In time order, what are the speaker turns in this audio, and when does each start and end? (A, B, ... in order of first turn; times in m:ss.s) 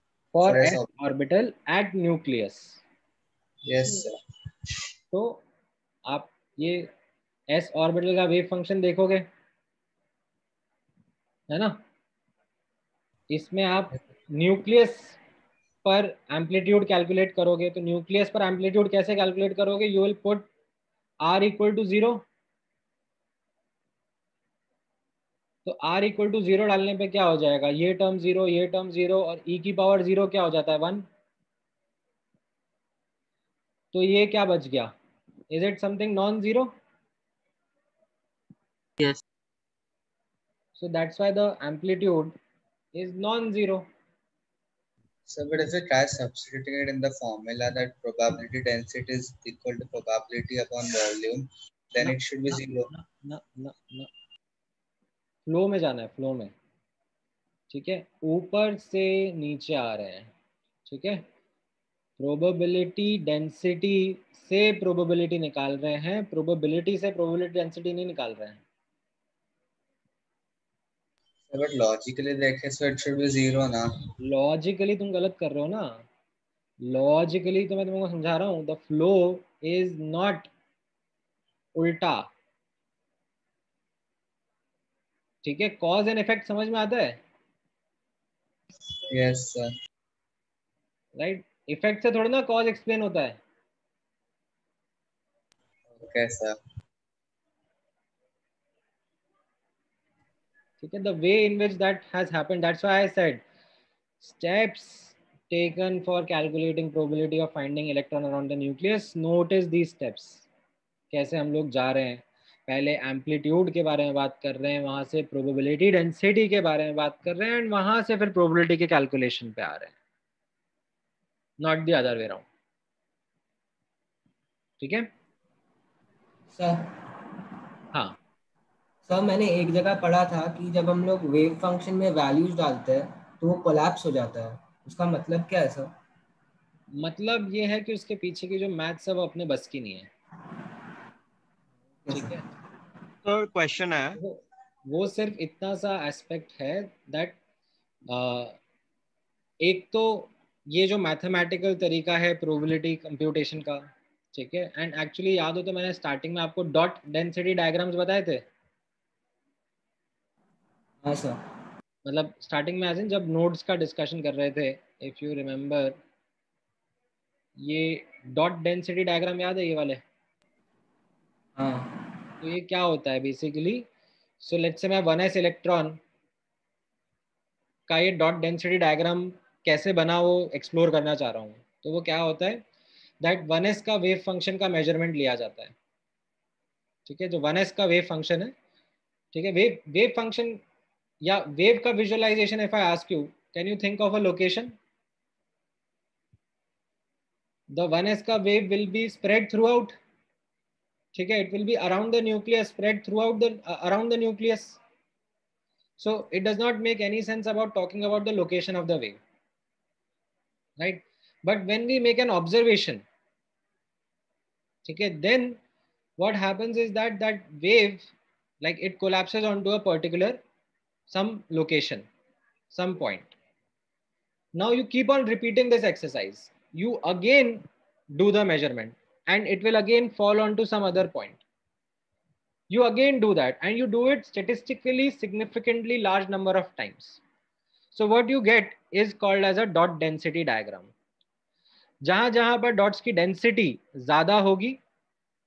0:00.3-0:02.8 A
0:00.4-0:00.8 B
0:03.6-0:04.2 B
0:05.1-0:05.4 A
0:06.1-0:06.9 A
0:07.5-0:09.2 A
0:11.5-0:11.8 A
0:13.3-0:15.2 A
0:15.8-0:20.5 A
0:21.2-0:22.2 A
0:25.6-0:31.1 A
0:33.9-0:34.9 A
0:35.5-0:36.7 A
0:40.8-0:42.4 A
0:42.9-0:43.8 A
0:45.3-0:52.9 B
0:52.0-0:54.1 A
0:55.5-0:56.5 A
0:57.7-1:00.3 A
1:00.8-1:01.2 A
1:02.2-1:08.6 A
1:11.5-1:13.9 B
1:14.2-1:16.0 A
1:16.8-1:20.5 A
1:21.7-1:22.3 A
1:25.4-1:27.2 A
1:29.1-1:29.7 B
1:31.2-1:33.4 A
1:36.0-1:36.6 B
1:40.8-1:43.4 A
1:44.2-1:50.4 A
1:51.1-1:59.9 A
2:01.6-2:02.4 A
2:04.8-2:05.1 A
2:06.6-2:06.8 C
2:09.1-2:15.9 C
2:17.0-2:20.1 A
2:22.1-2:22.4 A
2:23.2-2:24.1 B
2:24.2-2:27.4 A
2:28.1-2:28.6 A
2:29.6-2:33.8 A
2:34.3-2:38.4 A
2:42.0-2:46.0 A
2:47.6-2:50.0 A
2:52.4-2:53.9 A
2:54.4-2:56.0 A
2:57.9-3:02.6 A
3:03.2-3:05.7 A
3:07.0-3:08.5 A
3:09.3-3:10.6 A
3:11.2-3:14.8 A
3:17.7-3:20.0 A
3:21.1-3:24.8 A
3:26.0-3:29.2 A
3:30.8-3:33.0 A
3:34.8-3:35.6 A
3:36.2-3:40.4 A
3:41.1-3:42.1 A
3:42.7-3:43.3 A
3:44.5-3:51.4 A
3:52.7-3:57.2 A
3:57.9-4:00.9 A
4:02.0-4:04.8 A